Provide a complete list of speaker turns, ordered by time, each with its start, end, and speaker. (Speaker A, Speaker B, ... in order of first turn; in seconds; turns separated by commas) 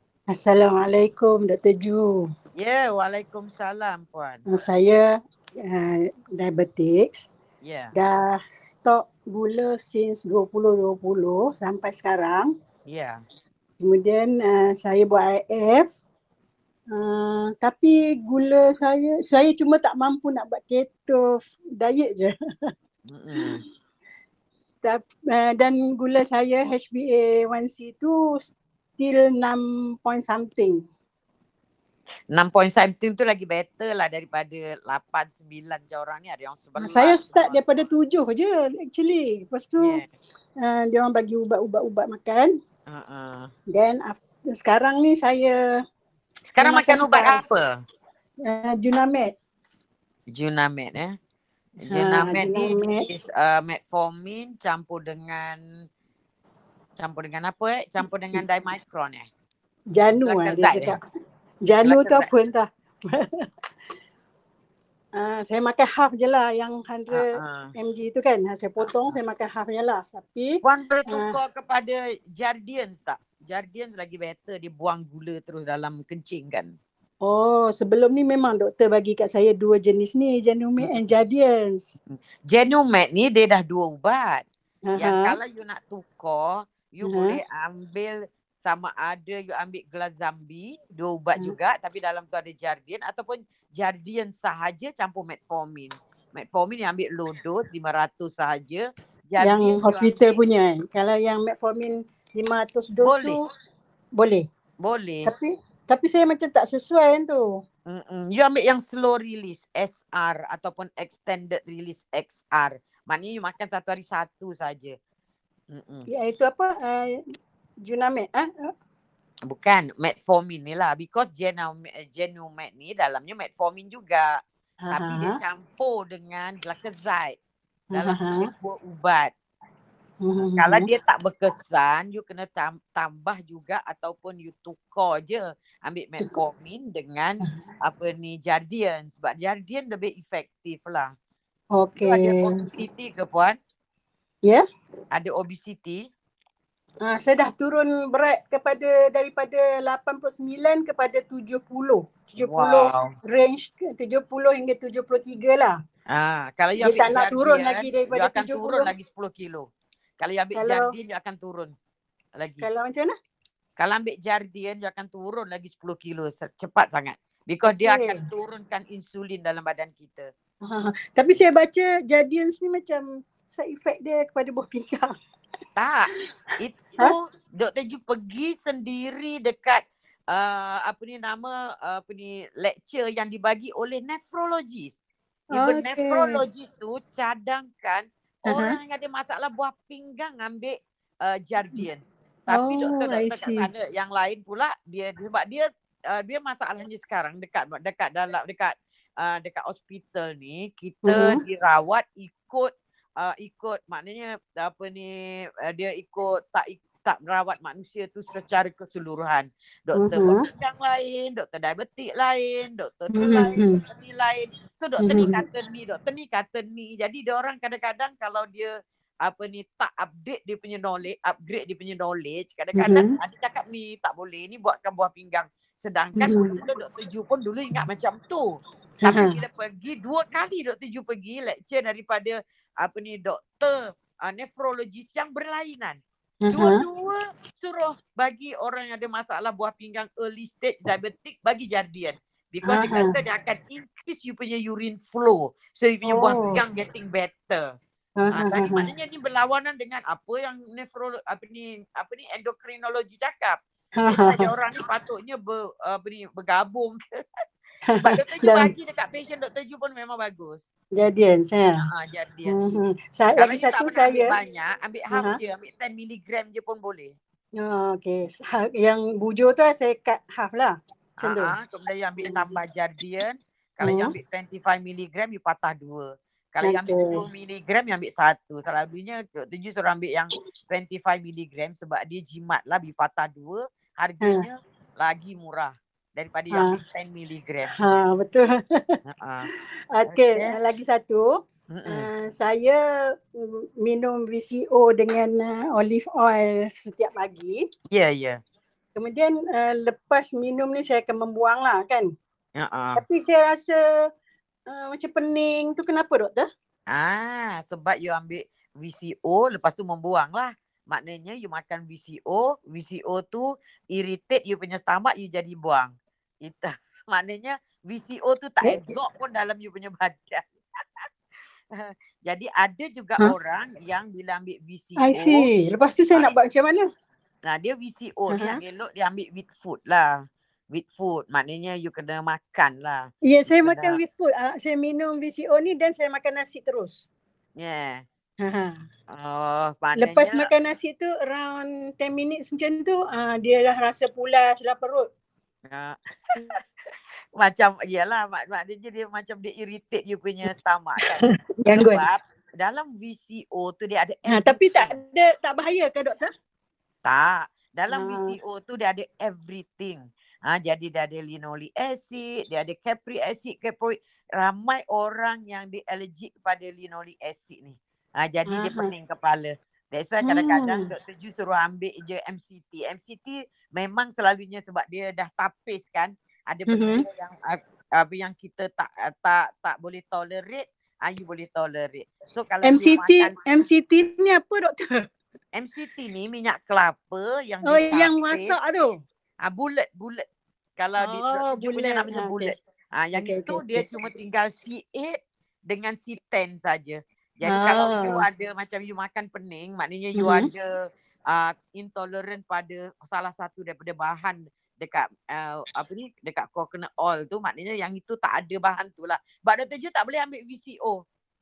Speaker A: 0.3-2.1, Speaker B: 2.5-4.6, Speaker A: 4.5-5.0, Speaker A: 5.6-7.3, Speaker B: 7.6-7.9, Speaker A: 8.0-12.5, Speaker B: 12.9-13.2, Speaker A: 13.8-15.9, Speaker A: 16.9-21.2, Speaker A: 21.8-22.3, Speaker B: 23.1-23.6, Speaker A: 24.8-30.8, Speaker B: 32.3-37.6, Speaker A: 36.8-40.0, Speaker B: 39.8-40.1, Speaker A: 40.6-42.5, Speaker B: 42.9-43.5, Speaker A: 43.7-45.6, Speaker B: 46.5-47.8, Speaker A: 46.6-47.4, Speaker A: 48.4-49.3, Speaker B: 50.3-51.1, Speaker B: 51.8-55.6, Speaker A: 51.9-53.0, Speaker B: 57.0-59.3, Speaker A: 60.0-61.0, Speaker B: 60.2-61.0, Speaker A: 61.7-63.2, Speaker B: 61.8-62.3, Speaker A: 65.2-67.2, Speaker B: 67.1-67.7, Speaker A: 67.8-71.2, Speaker B: 68.8-69.2, Speaker B: 70.6-76.8, Speaker A: 77.2-81.9, Speaker B: 80.8-81.1, Speaker B: 82.5-84.4, Speaker A: 84.9-85.4, Speaker B: 85.0-100.4, Speaker A: 87.0-87.4, Speaker A: 99.4-103.4, Speaker B: 103.0-103.5, Speaker A: 104.2-104.5, Speaker B: 104.8-105.3, Speaker A: 105.2-107.4, Speaker B: 107.9-115.0, Speaker B: 115.7-116.0, Speaker A: 116.1-117.2, Speaker A: 117.8-118.7, Speaker B: 119.5-127.4, Speaker A: 124.8-125.3, Speaker B: 127.9-129.3, Speaker A: 127.9-128.5, Speaker A: 130.2-130.9, Speaker B: 130.5-141.1, Speaker A: 141.8-142.5, Speaker B: 142.0-143.6, Speaker B: 145.1-146.0, Speaker A: 147.1-155.8, Speaker B: 152.4-153.1, Speaker B: 156.1-159.7, Speaker A: 156.8-158.9, Speaker B: 160.2-161.7, Speaker A: 160.5-160.9, Speaker B: 162.4-162.7, Speaker A: 162.6-163.1, Speaker B: 163.8-170.3, Speaker A: 167.8-168.2, Speaker A: 170.7-175.2, Speaker B: 175.8-185.0, Speaker A: 185.5-186.4, Speaker B: 185.5-205.1, Speaker A: 188.5-188.8, Speaker A: 192.5-193.7, Speaker A: 201.0-201.4, Speaker B: 205.6-218.7, Speaker A: 209.9-210.4, Speaker A: 213.1-213.8, Speaker A: 215.0-215.4, Speaker B: 219.2-236.0, Speaker A: 222.7-223.1, Speaker A: 226.2-226.5, Speaker A: 229.0-229.4, Speaker A: 236.4-236.8, Speaker B: 236.5-247.7, Speaker A: 242.6-243.1, Speaker A: 246.1-246.6, Speaker A: 248.2-248.9, Speaker B: 248.3-257.0, Speaker A: 254.0-254.5, Speaker A: 257.9-258.7, Speaker B: 258.0-260.6, Speaker A: 261.0-261.8, Speaker B: 261.9-262.5, Speaker A: 262.5-264.3, Speaker B: 263.3-267.1, Speaker A: 267.6-271.5, Speaker B: 271.2-287.7, Speaker A: 273.8-274.1, Speaker A: 276.6-277.2, Speaker A: 286.5-286.8, Speaker A: 287.8-288.8, Speaker B: 289.0-289.5, Speaker A: 289.9-292.8, Speaker B: 290.1-290.6, Speaker B: 291.7-292.1, Speaker A: 293.4-297.6, Speaker B: 297.9-298.4, Speaker A: 298.9-302.1, Speaker B: 302.6-303.0, Speaker A: 303.0-303.8, Speaker A: 304.7-306.5, Speaker B: 306.9-315.9, Speaker B: 316.4-320.4, Speaker B: 321.8-325.5, Speaker A: 325.0-326.8, Speaker B: 327.4-333.1, Speaker A: 328.3-328.6, Speaker A: 333.3-337.0, Speaker B: 333.6-334.0, Speaker B: 337.6-338.0, Speaker A: 338.4-338.8, Speaker B: 339.1-340.5, Speaker A: 339.9-345.1, Speaker B: 345.7-346.5, Speaker B: 347.4-354.9, Speaker A: 351.6-352.0, Speaker A: 354.2-356.3, Speaker B: 357.0-383.4, Speaker A: 357.9-358.3, Speaker A: 368.5-368.9, Speaker A: 370.2-370.9, Speaker A: 376.7-377.0, Speaker A: 382.6-384.8, Speaker B: 385.5-388.5, Speaker A: 387.6-388.9, Speaker B: 389.4-390.2, Speaker B: 390.8-411.0, Speaker A: 391.0-392.5, Speaker A: 393.1-393.9, Speaker A: 397.4-398.2, Speaker A: 400.2-400.5